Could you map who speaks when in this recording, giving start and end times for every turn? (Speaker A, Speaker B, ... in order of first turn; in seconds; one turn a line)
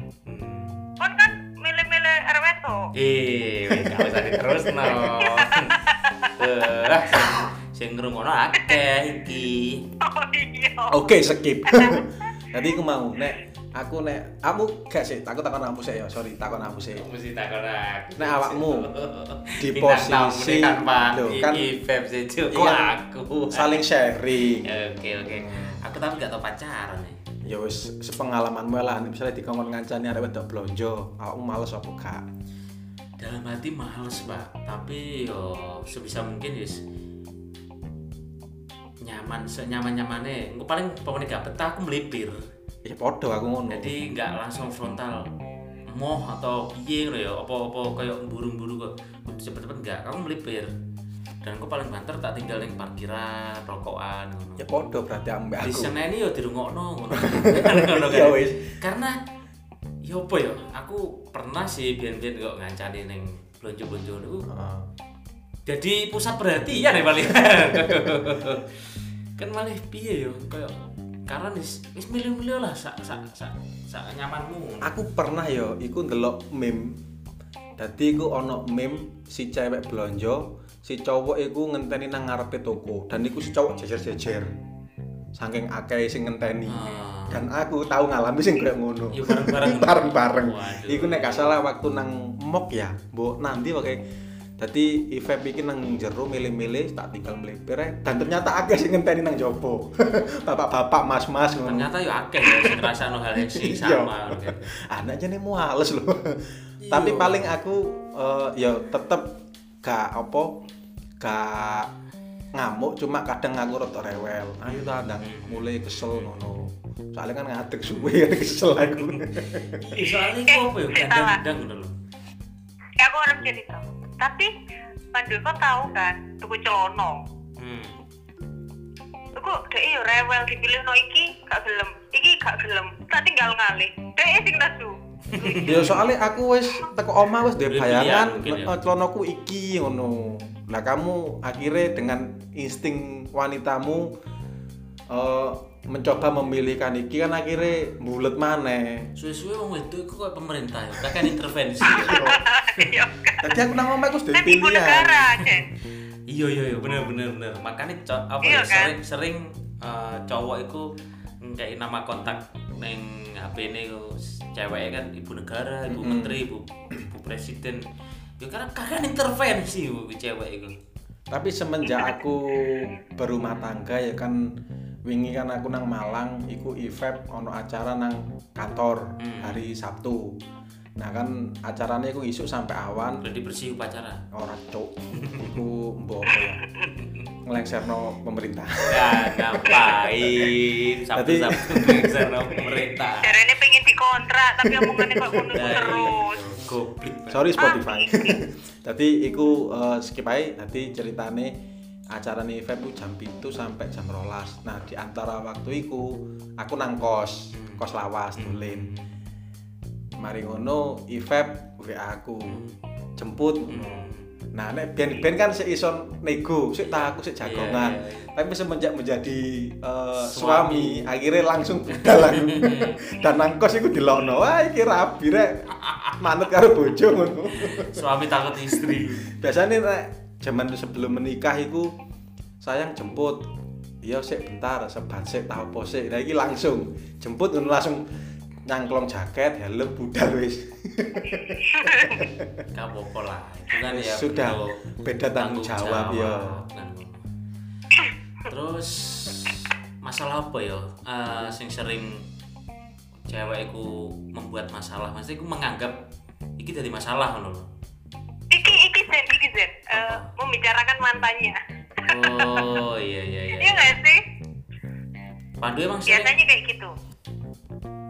Speaker A: 0.2-0.9
Speaker B: 1.0-2.9
Speaker A: 2.9-5.8
Speaker C: 3.7-4.7
Speaker B: 5.2-6.3
Speaker A: 6.3-9.8
Speaker B: 10.0-11.1
Speaker C: 10.9-17.0
Speaker B: 11.7-12.0
Speaker A: 16.9-23.8
Speaker C: 18.2-18.9
Speaker C: 19.6-21.7
Speaker C: 22.5-22.9
Speaker C: 23.5-24.7
Speaker A: 24.6-27.2
Speaker C: 25.2-25.8
Speaker C: 27.4-32.2
Speaker A: 33.2-36.8
Speaker A: 39.0-42.5
Speaker C: 42.8-43.9
Speaker A: 43.7-45.3
Speaker A: 45.9-50.7
Speaker A: 51.4-54.7
Speaker C: 54.6-55.9
Speaker A: 55.6-59.1
Speaker C: 57.1-58.7
Speaker A: 60.0-64.5
Speaker C: 64.5-64.9
Speaker A: 65.7-68.8
Speaker C: 67.3-68.0
Speaker A: 69.4-70.7
Speaker A: 71.3-74.9
Speaker C: 74.8-77.0
Speaker C: 77.8-84.5
Speaker C: 85.3-94.0
Speaker A: 86.7-87.4
Speaker A: 89.1-91.6
Speaker C: 94.6-110.6
Speaker A: 101.6-104.7
Speaker A: 106.8-107.5
Speaker C: 111.2-111.9
Speaker C: 112.5-119.8
Speaker A: 114.7-116.3
Speaker A: 117.8-118.2
Speaker A: 118.9-121.9
Speaker B: 120.5-121.4
Speaker B: 123.0-124.5
Speaker B: 125.1-127.2
Speaker A: 127.6-127.9
Speaker B: 129.3-135.8
Speaker A: 135.3-136.0
Speaker C: 135.6-144.1
Speaker A: 137.6-138.8
Speaker C: 145.1-149.1
Speaker A: 149.2-152.9
Speaker C: 151.8-152.4
Speaker B: 151.9-153.6
Speaker C: 153.4-155.3
Speaker B: 154.3-155.7
Speaker A: 155.4-160.9
Speaker B: 158.4-158.9
Speaker A: 161.4-167.8
Speaker C: 165.9-166.4
Speaker A: 168.4-170.8
Speaker C: 171.3-174.5
Speaker C: 175.0-180.3
Speaker A: 179.2-179.6
Speaker C: 181.0-183.2
Speaker A: 183.2-184.2
Speaker C: 184.3-186.6
Speaker A: 185.2-185.5
Speaker B: 186.3-186.8
Speaker A: 186.9-187.3
Speaker C: 187.4-190.5
Speaker A: 188.9-193.4
Speaker C: 191.1-192.6
Speaker B: 193.2-196.4
Speaker C: 194.7-195.4
Speaker A: 195.5-197.5
Speaker C: 197.3-201.6
Speaker B: 197.6-198.4
Speaker C: 202.1-208.9
Speaker A: 207.5-207.8
Speaker A: 208.3-209.1
Speaker C: 210.2-212.6
Speaker A: 212.4-212.8
Speaker C: 213.2-231.9
Speaker A: 213.7-214.3
Speaker A: 216.8-218.3
Speaker A: 220.2-221.1
Speaker A: 221.9-223.0
Speaker A: 225.8-226.2
Speaker A: 227.5-229.4
Speaker C: 232.6-233.5
Speaker C: 234.0-238.1
Speaker C: 238.7-242.6
Speaker B: 241.7-242.2
Speaker A: 242.7-244.8
Speaker C: 243.8-246.6
Speaker A: 245.3-247.2
Speaker A: 248.5-252.2
Speaker A: 253.3-256.0
Speaker A: 256.6-257.7
Speaker B: 258.5-262.7
Speaker A: 259.9-260.3
Speaker A: 262.0-264.0
Speaker B: 263.6-264.2
Speaker A: 265.6-266.3
Speaker B: 266.1-266.9